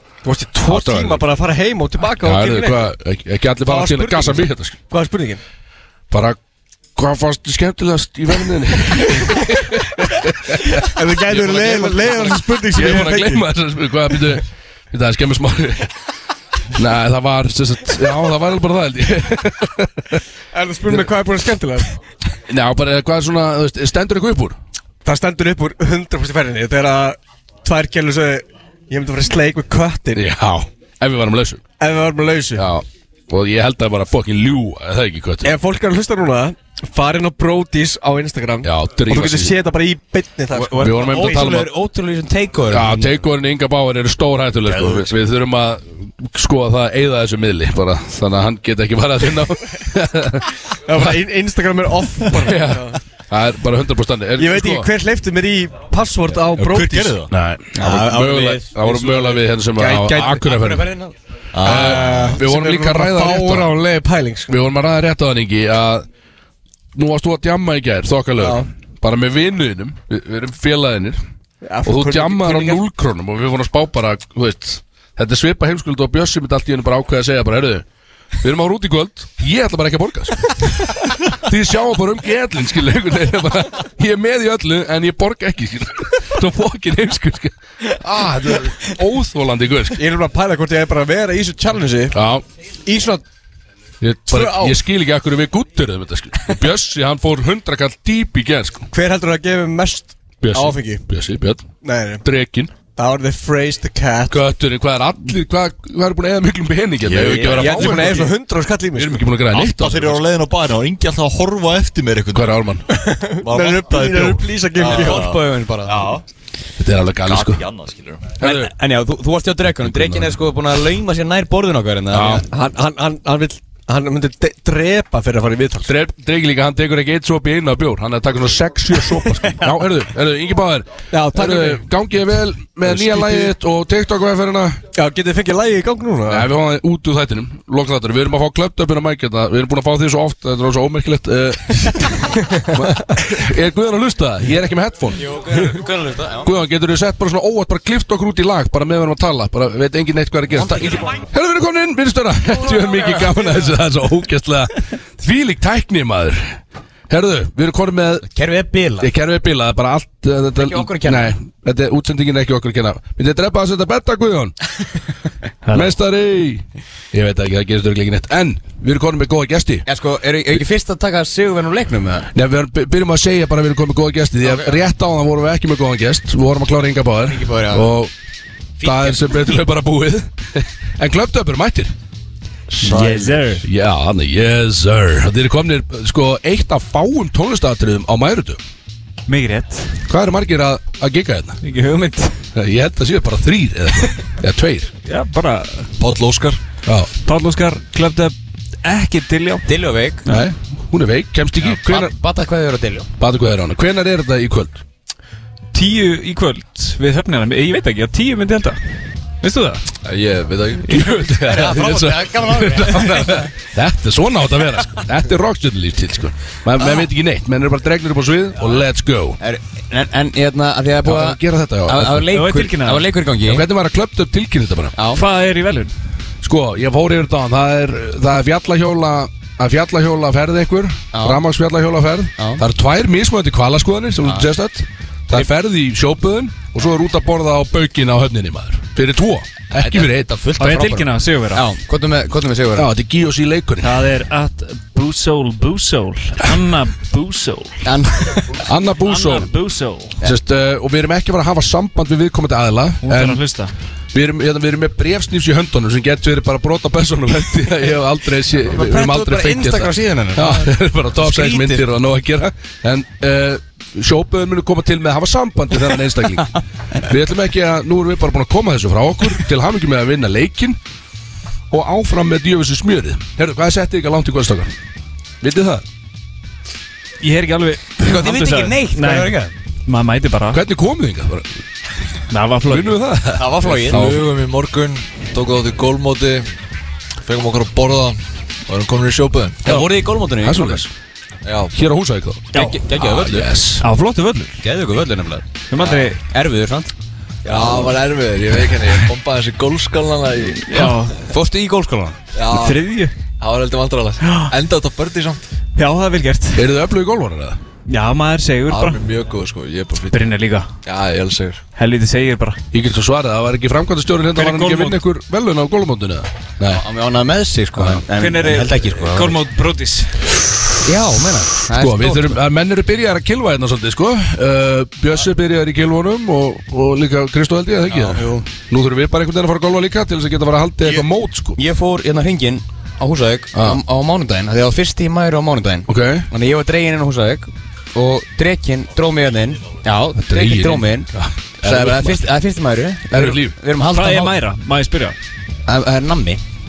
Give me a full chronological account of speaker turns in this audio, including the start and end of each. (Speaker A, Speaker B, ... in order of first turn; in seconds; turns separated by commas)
Speaker A: 0.2-2.8, Speaker B: 0.7-1.2, Speaker B: 2.2-4.8, Speaker A: 3.6-5.4, Speaker B: 6.1-6.4, Speaker B: 7.0-15.9, Speaker A: 10.9-13.4, Speaker B: 16.7-20.2, Speaker A: 20.5-21.9, Speaker B: 22.5-24.6, Speaker A: 25.0-30.3, Speaker B: 30.1-31.6, Speaker A: 31.8-32.7, Speaker B: 32.5-35.5, Speaker A: 35.4-41.6, Speaker B: 38.6-39.6, Speaker C: 40.5-43.1, Speaker B: 40.7-41.7, Speaker B: 42.7-50.5, Speaker A: 44.7-45.1, Speaker A: 50.9-53.0, Speaker B: 52.3-54.9, Speaker A: 54.4-57.2, Speaker D: 56.6-57.3, Speaker B: 57.3-60.9, Speaker C: 57.7-59.1, Speaker A: 58.8-60.5, Speaker C: 60.4-61.1, Speaker D: 61.5-62.3, Speaker B: 61.6-63.7, Speaker A: 61.6-64.6, Speaker B: 64.5-66.0, Speaker B: 66.9-71.2, Speaker A: 68.4-68.7, Speaker A: 71.6-72.8, Speaker B: 71.8-77.8, Speaker B: 78.4-90.0, Speaker A: 88.1-88.9, Speaker A: 89.9-92.1, Speaker B: 92.1-92.4, Speaker A: 92.8-93.2, Speaker B: 94.0-98.9, Speaker A: 94.3-94.8, Speaker A: 98.9-101.0, Speaker B: 100.4-102.7, Speaker A: 101.8-102.2, Speaker A: 103.0-104.4, Speaker B: 104.3-108.3, Speaker D: 107.0-108.2, Speaker A: 107.5-109.3, Speaker B: 108.9-110.2, Speaker D: 109.5-112.6, Speaker B: 112.3-112.8, Speaker A: 112.9-115.4, Speaker D: 113.4-116.2, Speaker C: 114.8-116.2, Speaker B: 116.8-117.6, Speaker D: 117.2-118.3, Speaker B: 118.4-118.7, Speaker C: 118.4-122.4, Speaker B: 119.8-120.4, Speaker B: 122.1-122.5, Speaker A: 122.5-125.9, Speaker B: 125.8-134.8, Speaker A: 131.1-131.8, Speaker A: 132.8-133.5, Speaker A: 134.9-136.5, Speaker B: 136.3-145.2, Speaker A: 142.3-143.0, Speaker C: 145.2-146.5, Speaker B: 146.4-158.3, Speaker C: 150.5-151.2, Speaker C: 152.8-153.4, Speaker C: 158.3-159.1, Speaker B: 159.0-164.7, Speaker C: 160.5-161.3, Speaker E: 165.6-165.9, Speaker B: 165.7-169.8, Speaker C: 169.8-172.3, Speaker B: 172.3-178.1, Speaker C: 174.4-174.7, Speaker C: 177.2-177.9, Speaker C: 178.8-179.4, Speaker B: 178.8-181.9, Speaker E: 182.8-183.6, Speaker B: 182.8-188.6, Speaker C: 182.8-183.2, Speaker E: 189.3-189.9, Speaker B: 190.1-191.6, Speaker E: 191.6-192.4, Speaker B: 192.5-194.9, Speaker E: 195.0-195.9, Speaker F: 196.0-196.6, Speaker E: 197.2-199.7, Speaker C: 199.6-200.2, Speaker B: 200.2-202.1, Speaker C: 201.6-203.1, Speaker B: 203.2-204.8, Speaker E: 205.7-208.8, Speaker E: 209.4-209.8, Speaker F: 210.0-210.9, Speaker E: 210.8-211.3, Speaker B: 210.9-219.4, Speaker C: 211.4-213.5, Speaker C: 216.8-217.1, Speaker C: 219.4-223.6, Speaker B: 221.0-222.3, Speaker E: 222.3-223.1, Speaker B: 223.4-224.9, Speaker C: 224.9-225.2, Speaker E: 225.1-225.9, Speaker B: 226.4-240.3, Speaker C: 231.1-231.4, Speaker C: 232.4-232.6, Speaker C: 234.2-234.5, Speaker C: 239.7-242.9, Speaker E: 240.6-241.7, Speaker B: 242.8-244.0, Speaker E: 243.8-247.8, Speaker C: 247.8-248.6, Speaker B: 248.6-249.5, Speaker E: 249.0-250.2, Speaker B: 250.2-253.5, Speaker E: 253.0-253.7, Speaker B: 254.1-270.8, Speaker C: 258.7-261.8, Speaker B: 271.7-274.7, Speaker B: 275.4-275.8, Speaker E: 277.2-280.6, Speaker C: 278.0-279.5, Speaker B: 280.5-281.6, Speaker E: 282.3-283.0, Speaker B: 282.7-284.2, Speaker C: 283.4-284.0, Speaker F: 283.7-286.5, Speaker F: 287.2-289.9, Speaker C: 289.6-290.9, Speaker B: 290.4-290.9, Speaker F: 291.4-291.7, Speaker B: 291.7-293.8, Speaker E: 292.5-292.8, Speaker C: 292.5-293.6, Speaker E: 293.8-294.6, Speaker C: 294.6-297.9, Speaker E: 295.7-296.2, Speaker F: 297.4-300.7, Speaker E: 300.7-301.2, Speaker B: 300.7-301.0, Speaker C: 301.3-302.2, Speaker F: 302.3-305.4, Speaker E: 302.5-303.1, Speaker E: 304.2-304.5, Speaker A: 305.8-306.5, Speaker B: 306.5-307.6, Speaker E: 307.9-309.0, Speaker F: 308.7-311.6, Speaker E: 310.1-310.7, Speaker E: 311.8-312.6, Speaker B: 312.7-316.8, Speaker E: 314.3-315.0, Speaker C: 316.6-319.4, Speaker B: 317.8-318.0, Speaker E: 318.1-320.2, Speaker C: 320.8-322.4, Speaker B: 321.7-331.6, Speaker C: 327.9-328.4, Speaker C: 331.6-341.1, Speaker B: 333.5-333.8, Speaker B: 335.9-336.2, Speaker B: 340.1-342.3, Speaker C: 341.6-344.4, Speaker B: 343.1-344.1, Speaker E: 343.9-345.2, Speaker C: 345.7-346.4